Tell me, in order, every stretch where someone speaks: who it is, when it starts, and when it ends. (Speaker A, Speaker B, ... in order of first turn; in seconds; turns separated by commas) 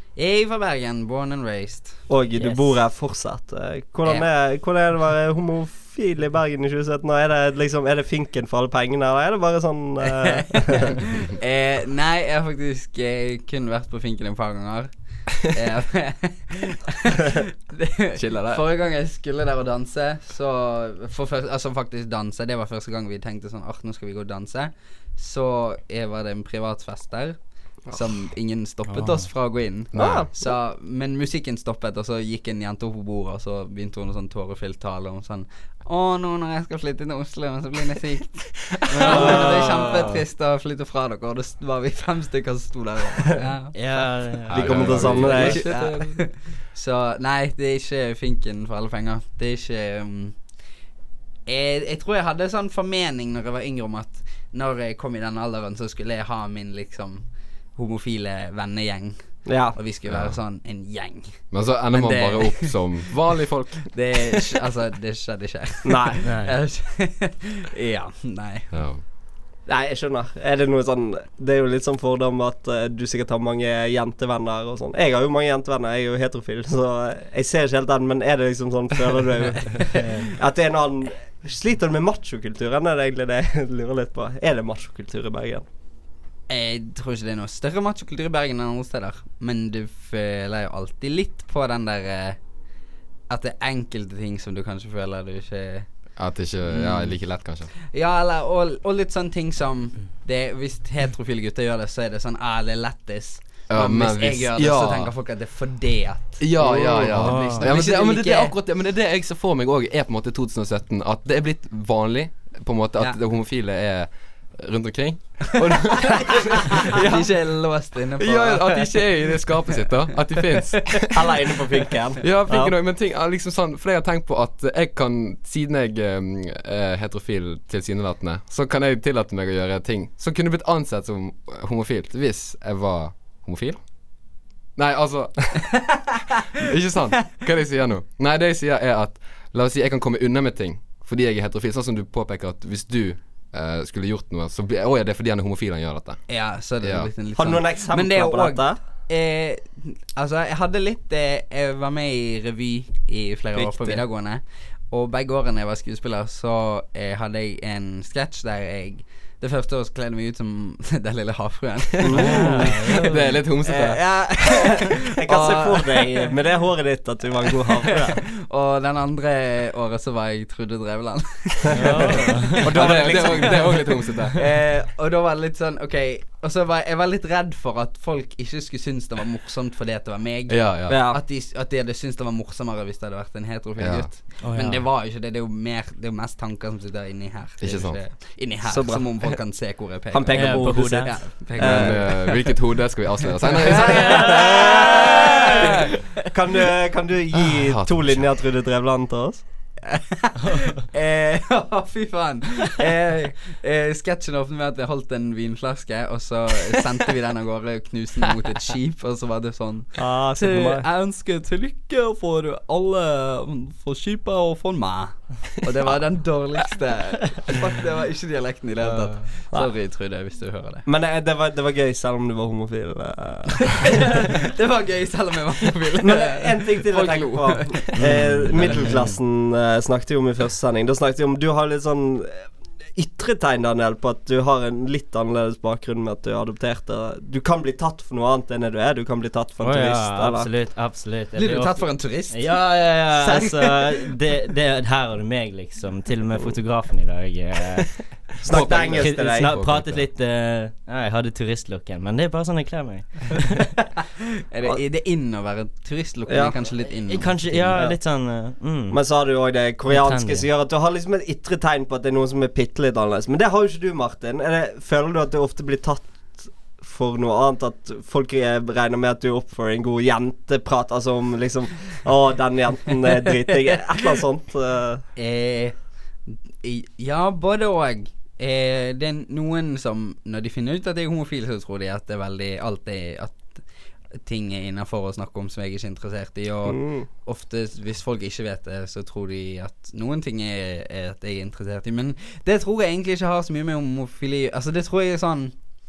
Speaker A: 0.2-2.8, Speaker B: 2.1-11.1, Speaker A: 10.6-27.4, Speaker C: 18.1-18.6, Speaker A: 27.9-44.2, Speaker D: 28.9-29.3, Speaker C: 29.9-30.3, Speaker B: 29.9-30.3, Speaker D: 39.0-40.2, Speaker D: 43.7-45.5, Speaker C: 44.5-46.3, Speaker B: 44.5-45.8, Speaker A: 45.0-50.4, Speaker A: 51.5-61.4, Speaker B: 59.5-59.8, Speaker C: 60.1-60.4, Speaker C: 61.5-63.9, Speaker A: 61.9-62.8, Speaker A: 63.9-68.8, Speaker B: 65.8-66.2, Speaker D: 66.2-66.6, Speaker C: 68.7-69.0, Speaker B: 69.7-85.7, Speaker A: 86.5-92.4, Speaker A: 93.3-95.9, Speaker C: 96.2-97.7, Speaker A: 96.7-97.2, Speaker A: 97.9-108.5, Speaker C: 103.7-105.1, Speaker C: 106.4-117.3, Speaker D: 107.1-107.6, Speaker A: 115.9-119.1, Speaker C: 118.2-121.3, Speaker A: 119.8-121.1, Speaker B: 121.1-122.7, Speaker C: 122.2-133.8, Speaker C: 134.8-136.0, Speaker C: 136.6-146.2, Speaker A: 146.3-163.1, Speaker C: 146.8-147.1, Speaker B: 147.4-148.8, Speaker B: 153.6-154.0, Speaker B: 162.0-162.8, Speaker D: 162.1-163.4, Speaker C: 162.9-164.0, Speaker A: 163.7-166.3, Speaker B: 163.8-168.2, Speaker A: 167.6-192.4, Speaker D: 171.7-172.7, Speaker B: 171.8-173.6, Speaker C: 172.6-174.4, Speaker C: 180.5-181.0, Speaker B: 180.9-181.2, Speaker C: 183.8-184.1, Speaker D: 184.4-184.8, Speaker C: 187.6-188.0, Speaker B: 188.7-189.3, Speaker B: 190.1-192.2, Speaker D: 190.3-191.2, Speaker C: 191.6-194.5, Speaker A: 193.5-195.8, Speaker B: 193.7-195.7, Speaker B: 196.2-199.4, Speaker C: 197.6-198.3, Speaker A: 199.8-220.9, Speaker B: 210.0-210.8, Speaker B: 220.9-224.3, Speaker A: 223.7-228.9, Speaker B: 226.0-232.4, Speaker D: 228.0-229.2, Speaker B: 233.0-240.5, Speaker D: 239.6-253.6, Speaker A: 241.3-242.5, Speaker A: 243.2-243.9, Speaker B: 248.4-249.5, Speaker C: 248.4-250.1, Speaker A: 254.5-257.9, Speaker B: 256.3-256.6, Speaker D: 256.9-259.0, Speaker B: 258.9-275.0, Speaker D: 259.9-260.5, Speaker A: 275.2-275.8, Speaker A: 276.3-283.6, Speaker A: 284.2-295.6, Speaker B: 286.7-287.1